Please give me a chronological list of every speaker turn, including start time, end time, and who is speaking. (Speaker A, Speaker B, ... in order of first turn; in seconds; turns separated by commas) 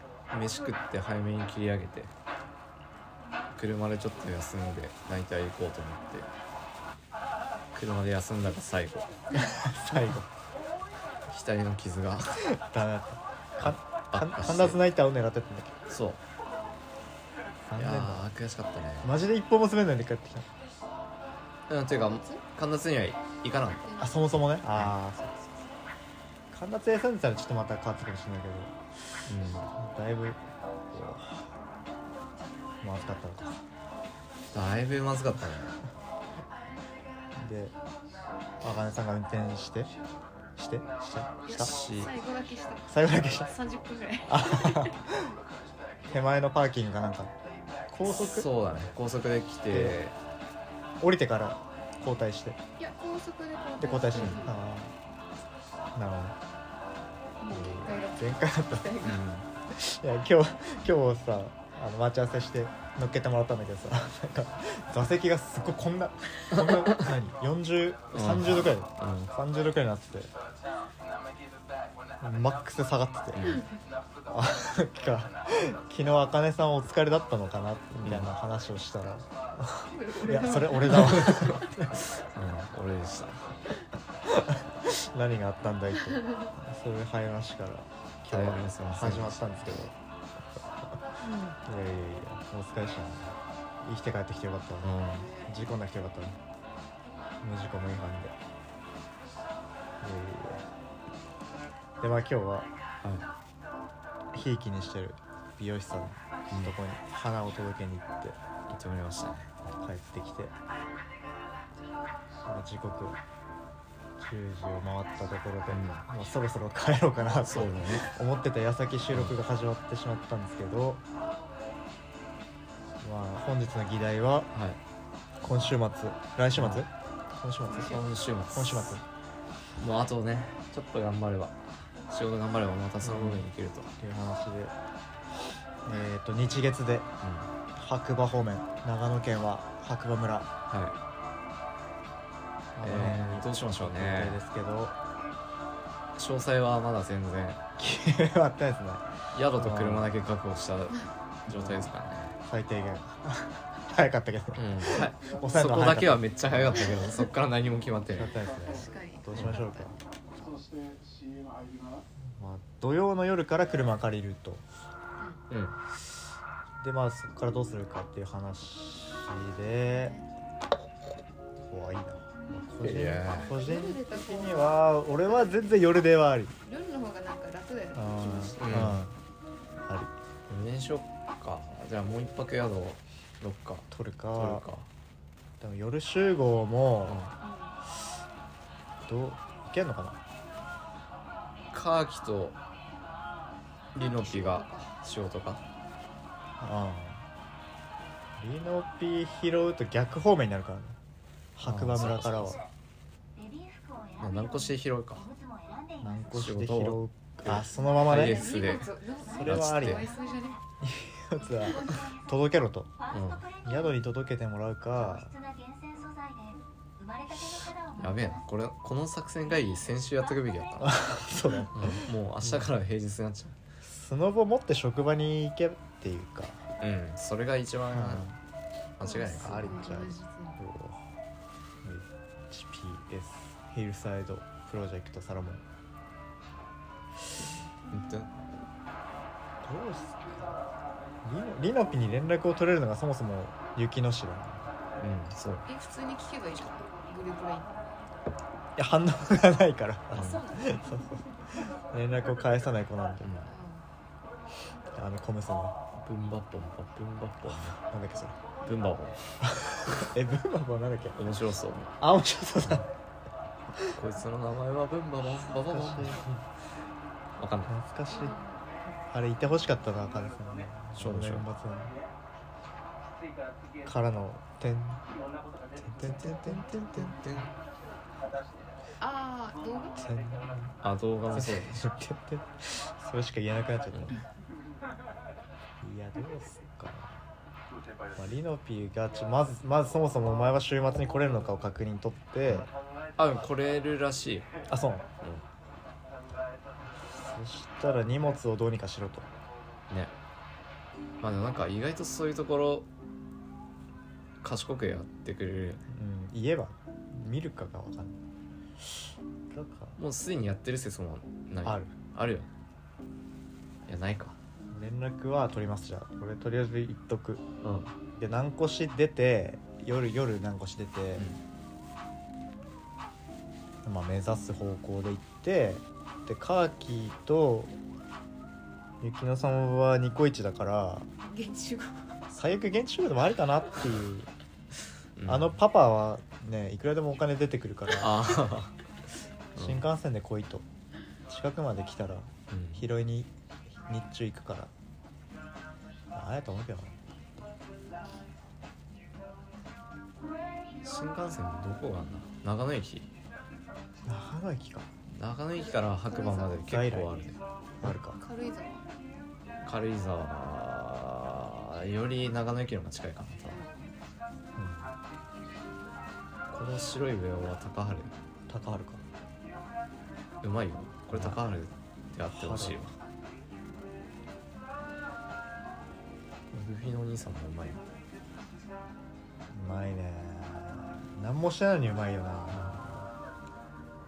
Speaker A: 0.3-2.1, Speaker A: 3.5-6.3, Speaker A: 7.7-9.1, Speaker B: 9.4-10.3, Speaker A: 11.3-12.6, Speaker B: 12.6-15.8, Speaker A: 13.6-14.8, Speaker A: 15.9-16.2, Speaker B: 17.6-18.3, Speaker A: 17.8-19.1, Speaker B: 19.0-20.5, Speaker A: 21.7-24.0, Speaker C: 21.9-22.4, Speaker C: 23.8-24.4, Speaker B: 24.0-25.6, Speaker A: 24.7-24.9, Speaker B: 26.5-28.7, Speaker A: 29.3-29.7, Speaker B: 29.8-31.5, Speaker B: 32.8-33.5, Speaker A: 34.5-35.8, Speaker B: 37.3-37.7, Speaker B: 38.6-39.9, Speaker B: 40.5-41.8, Speaker A: 41.1-42.1, Speaker C: 41.4-44.9, Speaker B: 42.9-43.5, Speaker B: 44.3-45.3, Speaker B: 46.1-47.3, Speaker B: 47.9-48.5, Speaker A: 48.0-50.1, Speaker B: 49.7-50.0, Speaker B: 51.0-52.6, Speaker C: 52.8-54.6, Speaker B: 53.8-54.9, Speaker A: 54.1-54.5, Speaker B: 55.9-56.4, Speaker C: 57.4-59.2, Speaker B: 57.5-59.0, Speaker A: 59.0-59.5, Speaker B: 59.7-70.3, Speaker A: 68.1-69.3, Speaker B: 72.2-73.6, Speaker A: 73.3-73.6, Speaker B: 74.3-81.9, Speaker A: 78.0-78.3, Speaker C: 79.9-81.7, Speaker A: 80.9-83.6, Speaker B: 84.2-89.9, Speaker A: 88.3-89.9, Speaker B: 90.6-96.4, Speaker A: 94.8-95.3, Speaker B: 97.4-98.3, Speaker B: 100.0-100.6, Speaker B: 102.0-102.7, Speaker B: 104.3-108.4, Speaker A: 108.7-109.5, Speaker B: 109.8-110.5, Speaker B: 112.4-113.2, Speaker B: 114.2-121.0, Speaker A: 115.7-116.0, Speaker A: 117.4-118.1, Speaker B: 123.0-124.5, Speaker A: 124.5-124.8, Speaker B: 125.4-129.0, Speaker A: 126.5-126.8, Speaker A: 127.8-129.0, Speaker A: 129.8-131.6, Speaker A: 132.1-133.9, Speaker B: 133.0-133.5, Speaker B: 134.0-134.7, Speaker B: 135.8-137.1, Speaker A: 137.2-137.5, Speaker B: 137.8-140.5, Speaker A: 140.7-141.0, Speaker A: 142.8-144.4, Speaker B: 142.8-145.0, Speaker A: 146.2-147.6, Speaker B: 147.8-150.1, Speaker A: 149.3-152.3, Speaker B: 151.5-151.9, Speaker B: 152.5-157.0, Speaker A: 154.6-158.4, Speaker D: 155.0-157.1, Speaker B: 158.1-160.0, Speaker D: 158.2-159.0, Speaker C: 158.6-159.9, Speaker A: 159.3-159.6, Speaker D: 160.3-162.2, Speaker B: 162.3-164.6, Speaker A: 165.5-165.8, Speaker B: 166.8-170.1, Speaker C: 169.7-170.3, Speaker B: 171.6-176.6, Speaker A: 172.8-173.5, Speaker C: 173.3-175.9, Speaker C: 176.6-178.9, Speaker B: 177.9-179.2, Speaker A: 178.6-179.0, Speaker B: 179.8-180.1, Speaker A: 180.5-184.9, Speaker B: 183.9-184.6, Speaker B: 185.6-187.2, Speaker A: 187.1-187.3, Speaker C: 187.4-187.8, Speaker B: 189.0-190.2, Speaker A: 191.7-192.6, Speaker A: 193.9-195.6, Speaker C: 194.0-195.0, Speaker B: 196.6-197.2, Speaker B: 198.4-201.0, Speaker B: 201.6-202.6, Speaker A: 201.6-202.6, Speaker A: 204.2-205.3, Speaker B: 206.0-208.7, Speaker A: 206.3-210.1, Speaker C: 207.7-210.6, Speaker B: 209.3-210.1, Speaker B: 210.8-212.9, Speaker A: 213.1-213.5, Speaker B: 213.6-215.3, Speaker A: 217.9-221.1, Speaker B: 220.8-222.7, Speaker A: 221.7-223.6, Speaker B: 223.8-226.6, Speaker A: 226.8-228.3, Speaker B: 227.9-228.3, Speaker A: 229.0-229.8, Speaker C: 229.0-230.6, Speaker B: 229.2-231.0, Speaker B: 231.8-235.6, Speaker A: 237.9-238.3, Speaker B: 239.6-240.5, Speaker B: 241.2-244.7, Speaker A: 245.0-245.7, Speaker C: 245.7-247.7, Speaker B: 248.8-253.3, Speaker A: 250.1-250.4, Speaker C: 250.2-250.6, Speaker A: 253.2-253.5, Speaker C: 253.4-253.8, Speaker B: 254.9-255.8, Speaker A: 255.9-257.8, Speaker B: 257.4-258.4, Speaker A: 258.6-259.2, Speaker B: 259.4-261.2, Speaker A: 261.1-261.9, Speaker B: 262.0-262.9, Speaker A: 263.9-266.4, Speaker B: 265.3-266.2, Speaker A: 267.4-267.7, Speaker B: 267.7-268.4, Speaker C: 268.1-268.8, Speaker B: 269.1-271.9, Speaker A: 270.9-271.4, Speaker B: 273.8-275.0, Speaker B: 275.8-277.2, Speaker A: 276.0-277.5, Speaker C: 279.0-280.1, Speaker B: 280.0-280.7, Speaker A: 280.8-281.8, Speaker B: 281.3-284.2, Speaker B: 285.8-287.2, Speaker B: 288.1-292.7, Speaker A: 292.4-294.5, Speaker B: 294.7-295.1, Speaker B: 297.1-299.3, Speaker A: 301.2-302.9, Speaker A: 304.4-305.8, Speaker B: 305.9-308.2, Speaker B: 309.5-310.0, Speaker A: 310.0-312.5, Speaker B: 311.6-311.9, Speaker A: 313.9-314.4, Speaker B: 314.7-317.4, Speaker A: 317.6-317.9, Speaker B: 318.2-321.3, Speaker B: 323.8-327.7, Speaker B: 329.0-331.1, Speaker C: 331.2-332.1, Speaker B: 332.3-334.3, Speaker A: 335.2-335.6, Speaker B: 335.3-338.4, Speaker A: 337.9-338.7, Speaker A: 339.5-339.9, Speaker B: 339.6-340.6, Speaker B: 341.3-343.3, Speaker A: 342.5-342.9, Speaker B: 343.9-344.7, Speaker B: 346.1-346.9, Speaker A: 350.8-353.1, Speaker B: 354.1-354.9, Speaker A: 355.1-357.4, Speaker C: 355.5-356.7, Speaker B: 356.6-357.1, Speaker B: 357.8-358.2, Speaker C: 357.9-358.8, Speaker A: 359.6-363.6, Speaker C: 363.4-363.9, Speaker B: 364.6-364.9, Speaker A: 366.5-368.1, Speaker B: 368.5-369.0, Speaker A: 370.4-372.9, Speaker B: 371.1-371.4, Speaker B: 372.3-372.8, Speaker A: 376.5-377.8, Speaker B: 379.5-382.9, Speaker A: 382.5-383.0